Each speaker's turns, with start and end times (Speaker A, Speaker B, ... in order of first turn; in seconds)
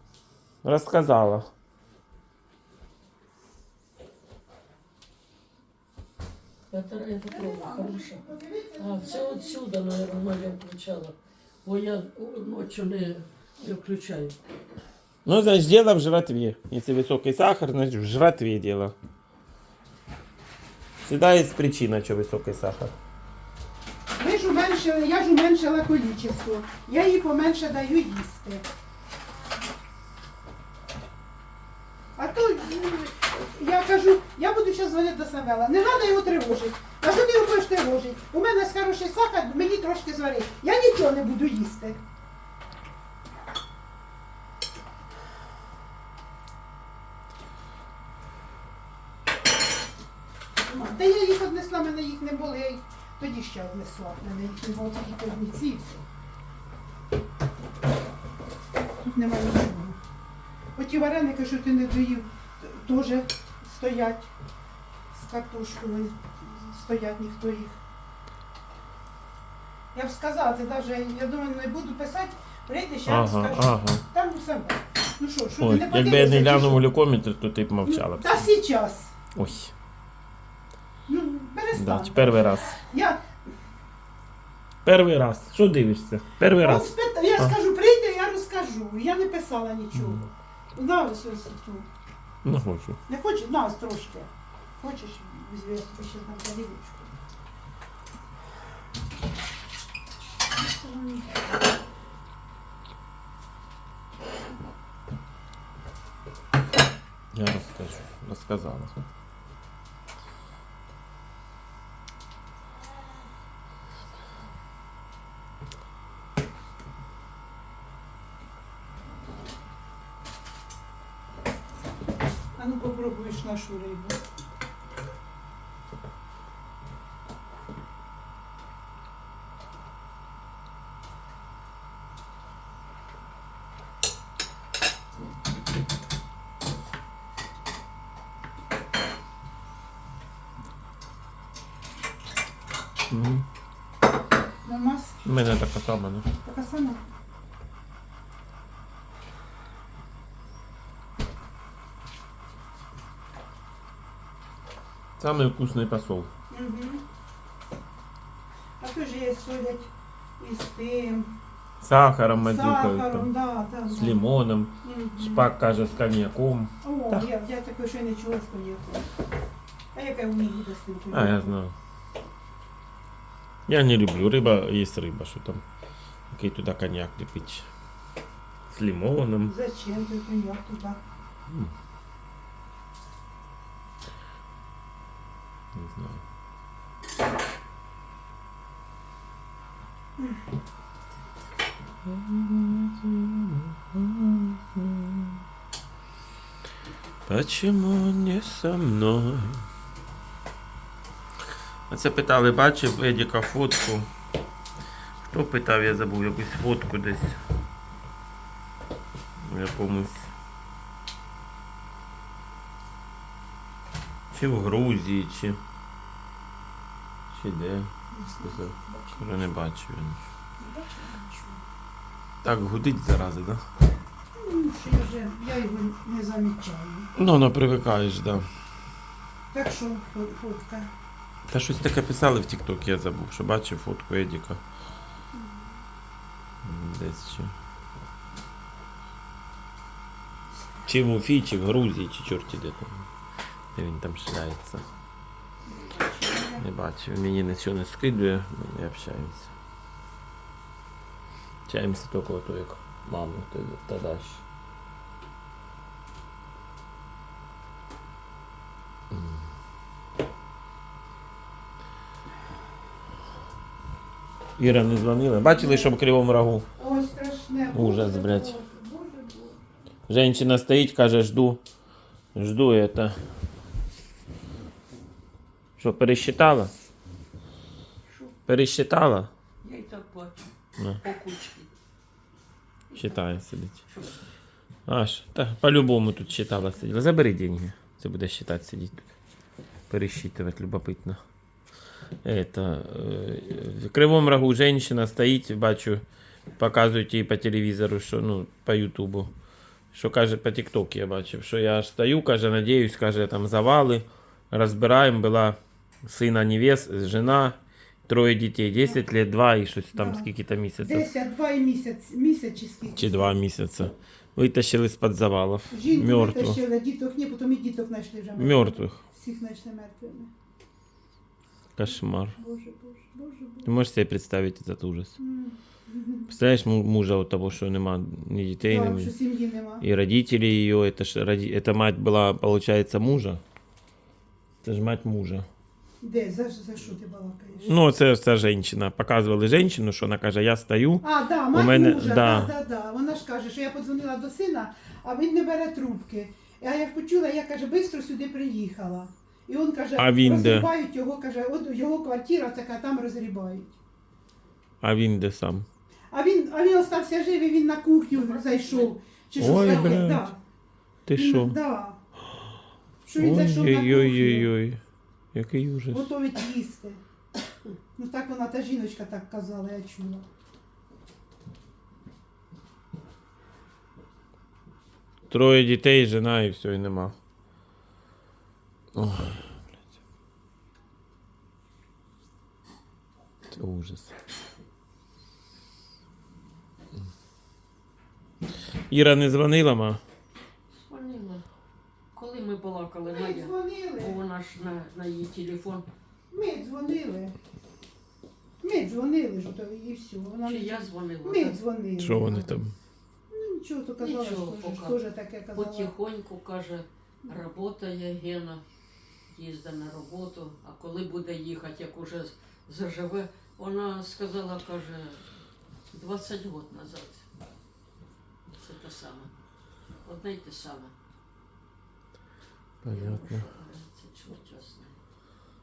Speaker A: 0.6-1.5, 15.3-18.9, 21.1-22.9, 73.1-74.0, 75.6-78.5, 79.4-79.7, 81.7-82.8, 84.8-87.5, 90.0-90.2, 92.5-93.0, 107.3-109.0, 143.1-143.4, 145.2-146.3, 155.2-156.3, 161.8-163.3, 163.9-167.3, 171.1-171.7, 173.7-175.6, 176.3-177.7, 178.7-179.5, 185.8-186.2, 192.1-195.4, 197.3-199.6, 201.9-204.1, 205.3-207.4, 209.4-210.3, 214.3-215.6, 217.3-217.9, 218.5-220.3, 222.4-223.6, 227.2-228.4, 231.5-234.6, 236.6-237.5, 240.8-243.0, 243.8-244.8, 246.6-249.5, 251.7-254.4, 264.6-266.6, 267.7-268.6, 270.1-271.6, 272.4-273.1, 275.8-276.7, 278.5-279.3, 282.9-283.8, 284.9-289.1, 289.9-291.2, 292.2-296.0, 296.6-299.3, 299.9-311.1, 313.0-316.6, 318.4-319.0, 321.8-322.4, 323.6-325.2, 326.3-329.1, 329.8-333.4, 334.6-335.5, 337.6-342.5, 350.0-350.7, 354.8-355.7, 359.4-360.3, 361.1-361.6, 363.2-364.8, 365.3-366.1, 375.3-377.1, 379.0-379.4, 383.5-384.1, 388.9-390.0, 402.0-402.8, 422.8-423.5
Speaker B: 6.7-8.2, 8.8-14.4, 278.1-278.3, 279.6-280.4, 281.0-281.7, 282.9-284.1, 358.1-360.1, 390.8-391.4, 392.1-395.9, 400.4-401.6, 404.0-405.0, 405.5-408.6, 409.3-415.2, 415.9-417.2, 418.6-419.3, 420.1-420.9, 422.9-424.9
Speaker C: 7.3-9.6, 24.2-28.6, 32.2-42.0, 50.6-55.9, 59.0-60.0, 60.8-64.3, 65.1-67.8, 69.9-76.8, 77.8-79.1, 81.1-83.2, 86.5-91.9, 93.1-97.1, 100.5-101.5, 122.6-124.2, 144.7-145.2, 146.4-147.0, 156.5-157.0, 158.8-161.3, 162.4-164.2, 164.8-165.5, 166.8-169.0, 169.9-171.5, 179.4-181.0, 218.1-219.3, 220.6-221.6, 224.4-227.1, 229.5-230.9, 245.7-246.7, 265.4-266.0, 266.8-269.6, 309.9-310.3, 310.8-313.4, 315.7-320.3, 321.9-323.7, 325.2-326.3, 328.7-329.9, 336.0-337.8, 341.0-353.8, 356.1-360.4, 361.1-362.0, 363.1-364.5, 365.9-367.0, 368.0-370.2, 393.1-394.2, 396.3-397.3, 398.6-402.5, 403.3-405.9